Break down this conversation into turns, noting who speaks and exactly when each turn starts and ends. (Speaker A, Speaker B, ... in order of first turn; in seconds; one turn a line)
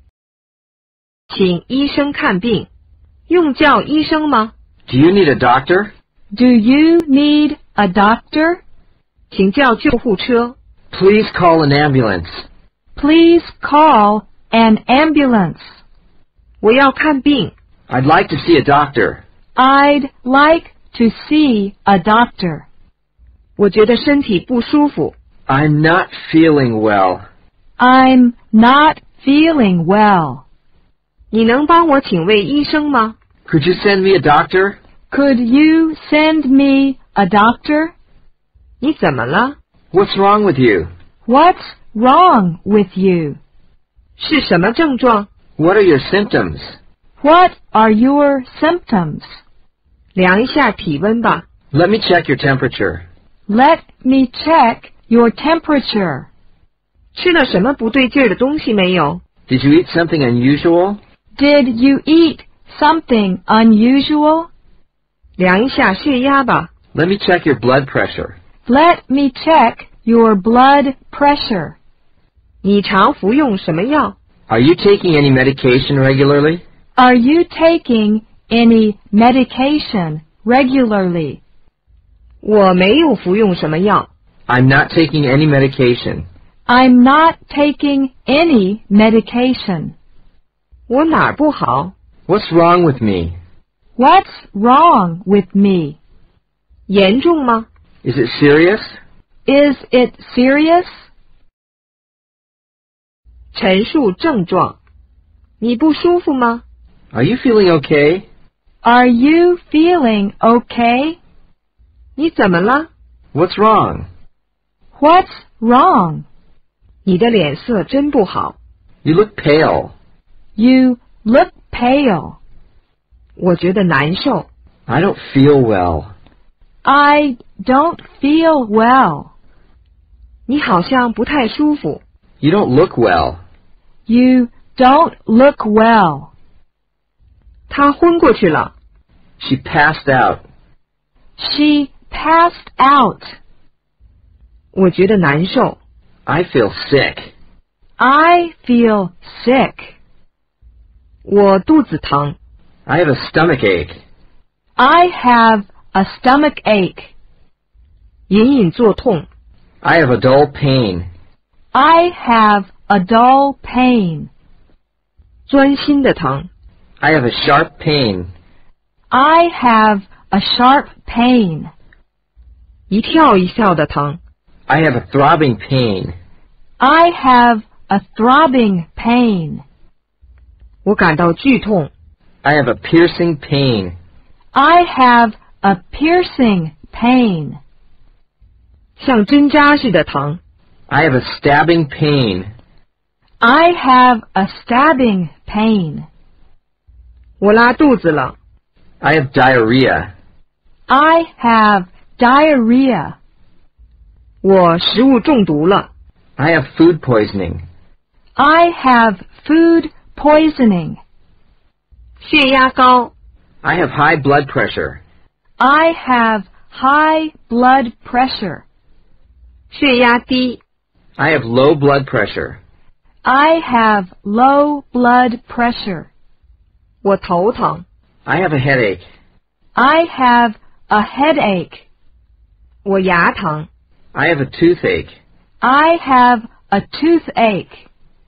Speaker A: 1.3-2.7
Speaker A: 3.3-4.5
Speaker B: 4.9-5.9
Speaker C: 6.3-8.6
Speaker A: 9.3-10.6
Speaker B: 10.9-12.4
Speaker C: 13.0-15.6
Speaker A: 16.6-17.5
Speaker B: 17.9-19.2
Speaker C: 19.6-22.6
Speaker A: 23.6-25.1
Speaker B: 25.5-27.2
Speaker C: 27.8-30.4
Speaker A: 31.3-33.2
Speaker B: 33.5-34.8
Speaker C: 35.1-37.9
Speaker A: 38.8-39.6
Speaker B: 39.9-40.9
Speaker C: 41.2-43.4
Speaker A: 44.2-45.3
Speaker B: 45.6-46.8
Speaker C: 47.2-49.3
Speaker A: 50.1-51.4
Speaker B: 51.7-53.0
Speaker C: 53.5-56.3
Speaker A: 57.1-59.2
Speaker B: 59.5-61.0
Speaker C: 61.4-64.5
Speaker A: 65.4-66.7
Speaker B: 66.9-68.4
Speaker C: 68.7-71.8
Speaker A: 72.6-74.2
Speaker B: 74.5-76.6
Speaker C: 77.0-81.4
Speaker A: 82.4-84.1
Speaker B: 84.5-86.3
Speaker C: 86.7-89.9
Speaker A: 90.9-91.9
Speaker B: 92.3-93.3
Speaker C: 94.0-96.0
Speaker A: 96.9-97.7
Speaker B: 98.0-99.0
Speaker C: 99.5-100.9
Speaker A: 103.5-104.8
Speaker A: 105.6-106.6
Speaker B: 107.1-108.2
Speaker C: 108.8-111.2
Speaker A: 112.2-112.9
Speaker B: 113.3-114.1
Speaker C: 115.0-116.2
Speaker A: 117.0-118.6
Speaker B: 119.0-119.9
Speaker C: 120.6-122.4
Speaker A: 123.4-124.5
Speaker B: 124.9-126.1
Speaker C: 126.8-129.3
Speaker A: 130.5-132.0
Speaker B: 132.4-133.4
Speaker C: 134.1-136.3
Speaker A: 137.7-138.7
Speaker B: 139.4-140.4
Speaker C: 141.4-143.3
Speaker A: 144.7-145.8
Speaker B: 146.3-147.3
Speaker C: 148.0-149.9
Speaker A: 151.2-152.4
Speaker B: 152.9-154.0
Speaker C: 154.8-157.1
Speaker A: 158.3-159.3
Speaker B: 159.8-161.1
Speaker C: 161.7-164.3
Speaker A: 165.5-166.5
Speaker B: 167.0-168.3
Speaker C: 169.1-171.7
Speaker A: 172.9-174.2
Speaker B: 174.7-176.2
Speaker C: 176.8-179.6
Speaker A: 180.8-181.9
Speaker B: 182.4-183.9
Speaker C: 184.5-187.6
Speaker A: 189.0-190.4
Speaker B: 190.9-192.5
Speaker C: 193.4-196.1
Speaker A: 197.4-198.4
Speaker B: 199.0-200.1
Speaker C: 200.9-203.2
Speaker A: 204.4-205.9
Speaker B: 206.4-207.7
Speaker C: 208.4-211.0
Speaker A: 212.2-213.1
Speaker B: 213.6-215.0
Speaker C: 215.6-218.6
Speaker A: 219.7-220.6
Speaker B: 221.2-222.6
Speaker C: 223.2-226.1
Speaker A: 227.0-227.8
Speaker B: 228.3-229.0
Speaker C: 229.8-231.8
Speaker A: 232.8-233.7
Speaker B: 234.1-235.1
Speaker C: 235.6-237.8